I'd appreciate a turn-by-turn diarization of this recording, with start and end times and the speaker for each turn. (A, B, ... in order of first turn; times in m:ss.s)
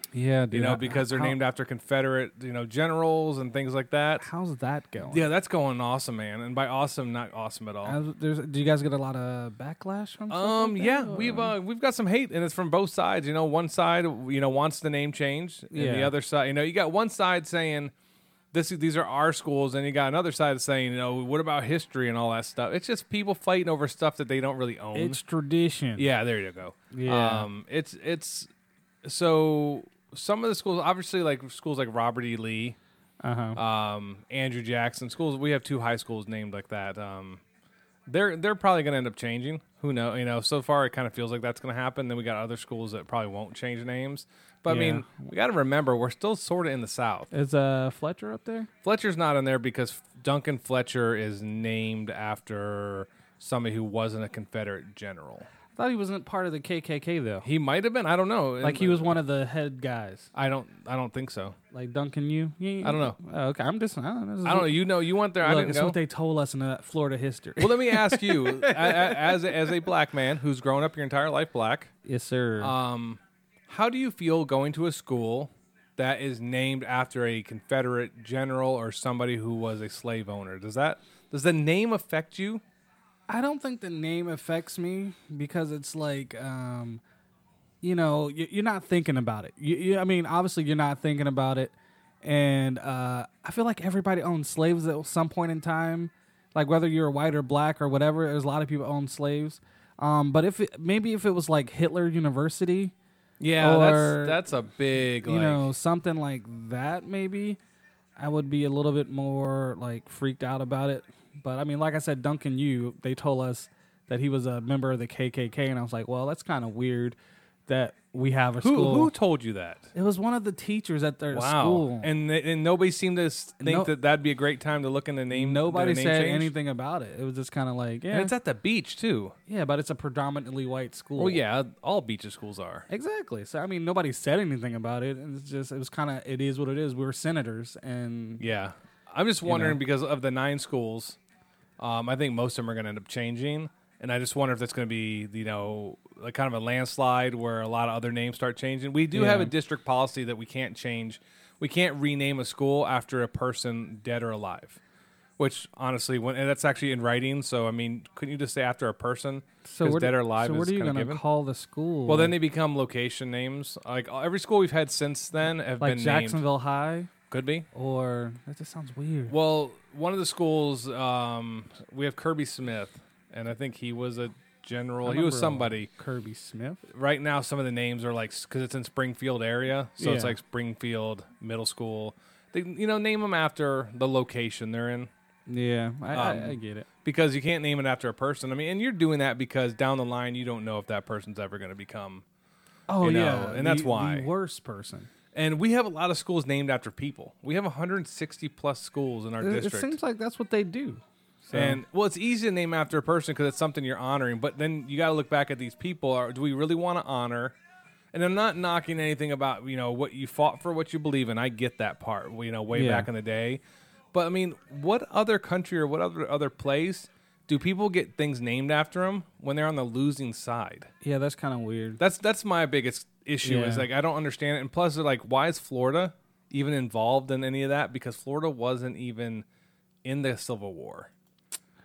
0:00.1-0:01.4 A
0:00.5-0:04.3 B
0:04.2-0:05.3 A
0:05.1-0:08.0 B
0:07.8-0:11.5 A
0:10.3-0:17.9 B
0:15.7-0:16.1 A
0:18.5-0:25.2 B
0:25.0-0:26.1 A
0:26.0-0:28.5 B
0:26.9-0:27.5 A
0:29.0-0:32.8 B
0:33.2-0:33.6 A
0:33.6-0:37.4 B
0:38.1-0:47.3 B
0:44.7-0:45.1 A
0:47.3-0:48.7 A
0:48.8-0:55.5 B
0:55.8-0:57.5 A
0:57.4-0:59.2 B
0:58.6-1:00.3 A
1:00.4-1:01.6 B
1:01.7-1:04.8 A
1:02.8-1:03.2 B
1:04.4-1:06.0 B
1:05.4-1:09.2 A
1:07.6-1:11.9 B
1:12.0-1:12.7 A
1:12.6-1:22.6 B
1:23.3-1:27.0 A
1:27.8-1:42.9 A
1:43.4-1:45.7 B
1:43.6-1:44.4 A
1:45.2-1:47.6 A
1:48.2-1:57.2 A
1:57.7-1:59.1 A
1:58.6-1:59.9 B
2:00.0-2:02.1 A
2:01.3-2:06.5 B
2:03.6-2:03.9 A
2:05.3-2:08.3 A
2:08.1-2:09.4 B
2:09.5-2:11.4 A
2:11.2-2:12.9 B
2:12.9-2:18.4 A
2:18.4-2:21.2 B
2:19.5-2:19.8 A
2:21.8-2:34.8 B
2:29.1-2:29.5 A
2:35.4-2:41.2 B
2:39.6-2:42.3 A
2:42.1-2:46.4 B
2:45.8-2:47.1 A
2:47.3-2:47.7 B
2:47.7-2:49.3 A
2:49.3-2:55.9 B
2:55.0-2:56.8 A
2:56.9-3:05.1 B
3:00.0-3:00.3 A
3:05.5-3:06.9 A
3:06.1-3:12.2 B
3:12.9-3:15.1 A
3:13.0-3:14.3 B
3:15.4-3:20.0 B
3:19.4-3:21.8 A
3:21.5-3:27.6 B
3:28.1-3:33.6 B
3:32.7-3:33.1 A
3:34.1-3:40.9 B
3:41.0-3:42.0 A
3:42.0-3:49.4 B
3:43.4-3:43.9 A
3:50.0-3:51.1 B